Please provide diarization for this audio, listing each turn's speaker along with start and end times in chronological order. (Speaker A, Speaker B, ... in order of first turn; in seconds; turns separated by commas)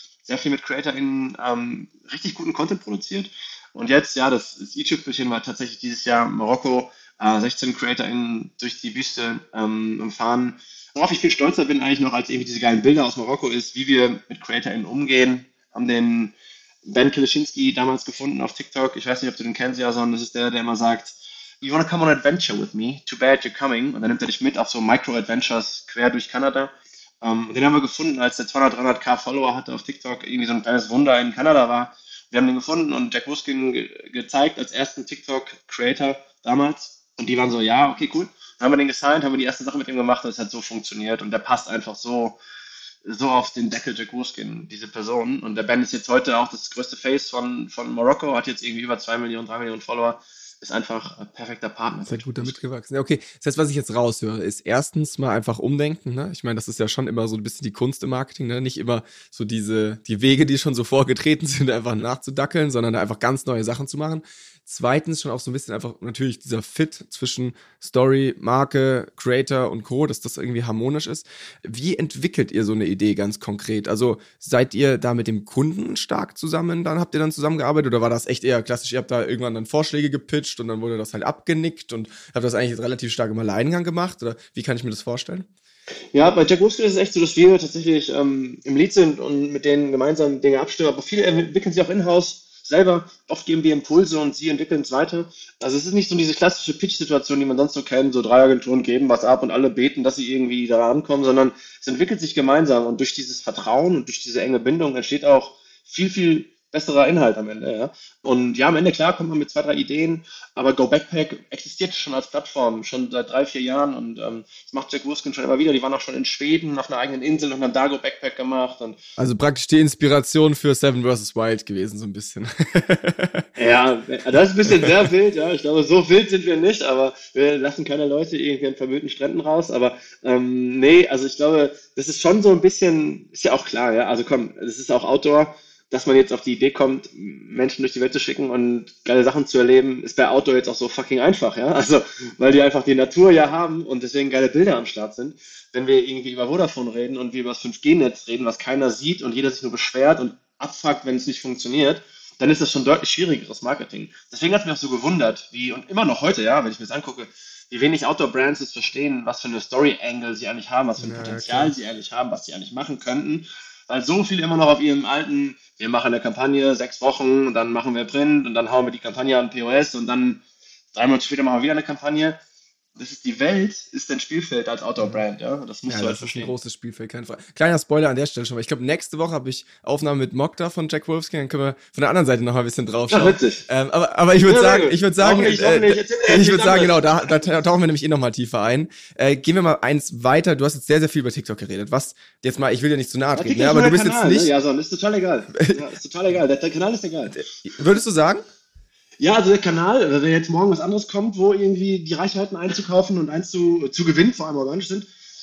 Speaker A: 0.2-42.4, Speaker A: 43.0-52.6, Speaker B: 52.1-85.5, Speaker A: 86.1-119.0, Speaker B: 119.2-123.5, Speaker A: 123.6-170.4, Speaker B: 161.0-161.7, Speaker A: 170.9-172.4, Speaker A: 173.0-176.5, Speaker B: 175.9-194.5, Speaker A: 183.1-183.6, Speaker A: 184.5-187.1, Speaker A: 193.4-197.4, Speaker B: 197.3-198.4, Speaker A: 199.2-205.1